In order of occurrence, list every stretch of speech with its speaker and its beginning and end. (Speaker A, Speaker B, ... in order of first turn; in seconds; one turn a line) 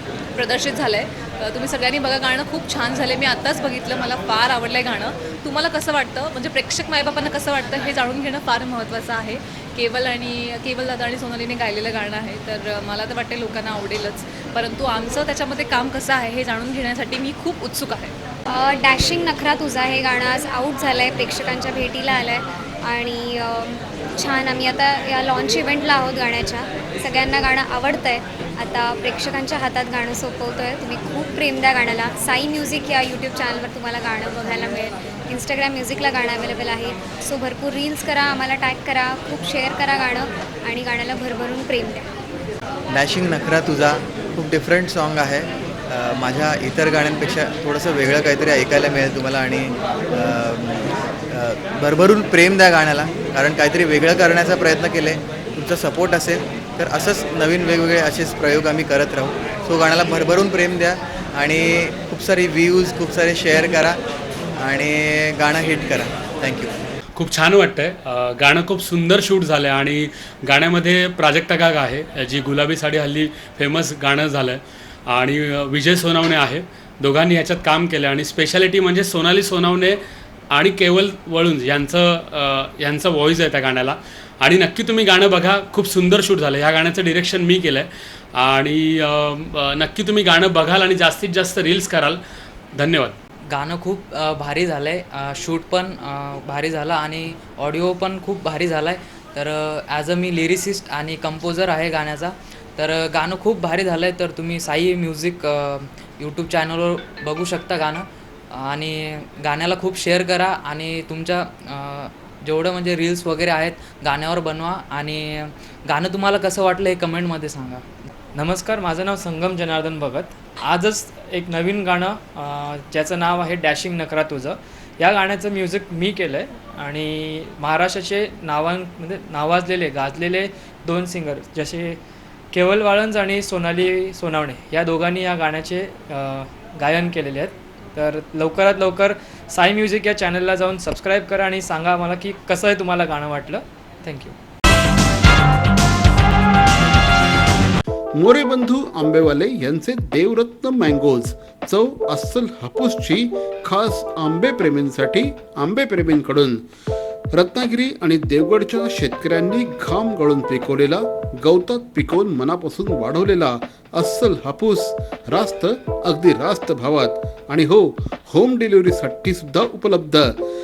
Speaker A: 0.4-18.1
Speaker B: 18.5-42.1
Speaker C: 42.9-64.0
Speaker C: 64.6-66.7
Speaker D: 67.2-80.0
Speaker D: 80.5-92.2
Speaker D: 92.7-93.2
Speaker E: 93.5-117.8
Speaker F: 118.3-132.0
Speaker F: 132.5-144.3
Speaker G: 148.2-156.6
Speaker G: 157.3-170.3